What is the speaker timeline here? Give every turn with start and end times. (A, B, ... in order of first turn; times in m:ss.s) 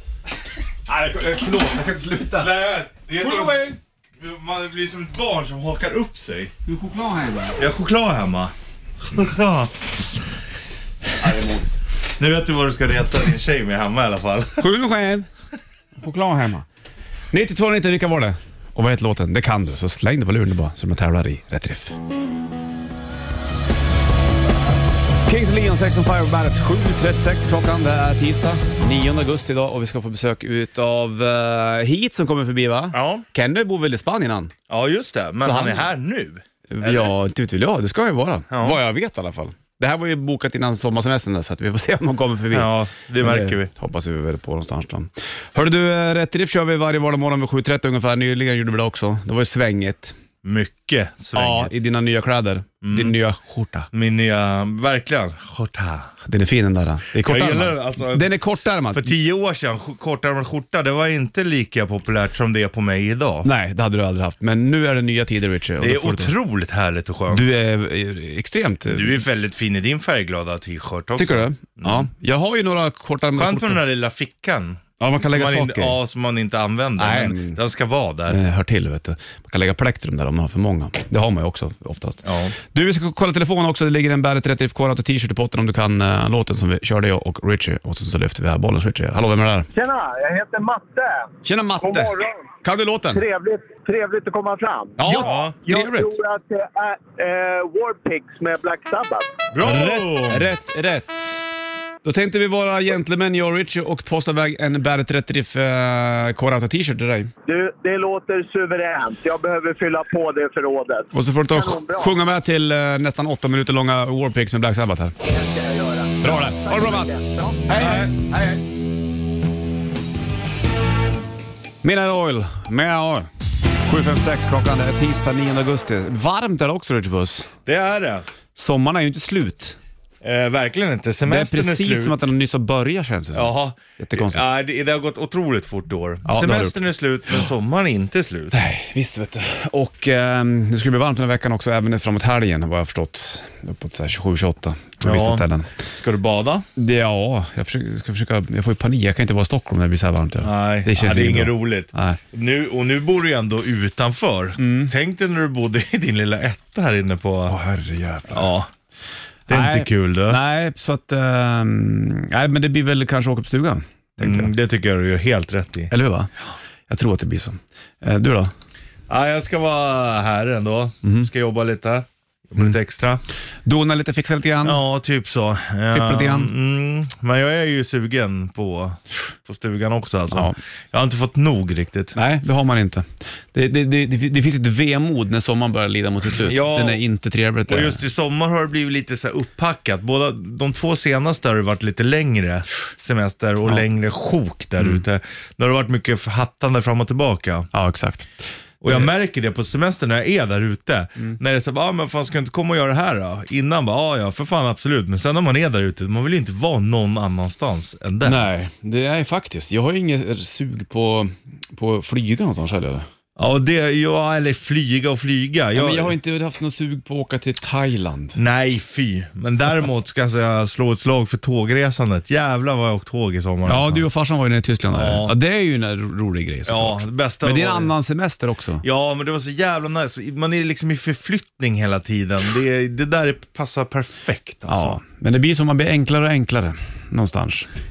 0:00.9-0:02.6 A
0:02.3-0:06.5 B
0:03.1-0:03.8 A
0:06.7-0:07.6 A
0:07.6-0:10.2 B
0:11.2-0:11.8 A
0:12.2-0:14.7 B
0:14.6-0:15.3 A
0:16.0-0:16.6 A
0:17.3-0:22.0 A
0:25.2-0:34.5 A
0:32.9-0:33.2 B
0:34.7-0:37.1 B
0:35.4-0:35.9 A
0:36.7-0:50.1 A
0:38.5-0:38.8 B
0:42.5-0:43.7 B
0:50.4-0:51.7 B
0:51.3-0:53.9 A
0:52.8-0:53.1 B
0:53.9-0:56.1 B
0:56.2-0:59.1 A
0:57.1-0:58.3 B
0:58.9-1:03.5 B
1:03.4-1:06.3 A
1:05.8-1:07.5 B
1:07.3-1:09.2 A
1:08.9-1:12.1 B
1:11.2-1:13.8 A
1:13.3-1:18.4 B
1:15.0-1:16.0 A
1:17.0-1:17.6 A
1:18.3-1:29.7 A
1:22.2-1:22.5 B
1:29.7-1:31.3 C
1:31.4-1:33.2 A
1:31.8-1:32.5 C
1:33.1-1:39.3 C
1:35.0-1:36.1 A
1:35.2-1:35.6 B
1:39.5-1:40.5 B
1:39.6-1:41.4 A
1:42.0-1:47.3 A
1:47.5-1:52.2 C
1:51.1-1:55.1 A
1:55.2-1:57.9 C
1:56.2-1:57.2 A
1:57.7-1:58.3 A
1:57.7-1:58.1 B
2:01.8-2:03.3 A
2:03.8-2:07.5 A
2:07.6-2:08.3 B
2:08.5-2:09.8 A
2:10.2-2:12.2 B
2:11.2-2:14.5 A
2:13.3-2:18.6 B
2:16.2-2:16.8 A
2:18.5-2:25.7 A
2:25.0-2:26.6 B
2:26.8-2:32.2 A
2:30.4-2:37.5 B
2:34.6-2:34.9 A
2:37.5-2:38.5 A
2:38.3-2:38.7 B
2:39.5-2:40.4 B
2:39.5-2:44.5 A
2:44.2-2:45.9 B
2:45.9-2:46.3 A
2:46.9-2:48.5 A
2:49.1-2:53.2 B
2:51.0-2:51.3 A
2:53.6-2:54.8 A
2:54.6-3:02.2 B
2:55.9-2:56.5 A
3:00.3-3:00.6 A
3:02.1-3:08.0 A
3:06.4-3:07.0 B
3:07.7-3:17.7 B
3:17.7-3:19.1 A
3:18.8-3:28.4 B
3:28.2-3:33.1 A
3:33.4-3:36.1 B
3:35.7-3:38.4 A
3:38.4-3:44.0 B
3:43.6-3:48.8 A
3:44.9-3:45.4 B
3:46.6-3:47.9 B
3:48.8-3:55.0 B
3:54.7-3:57.7 A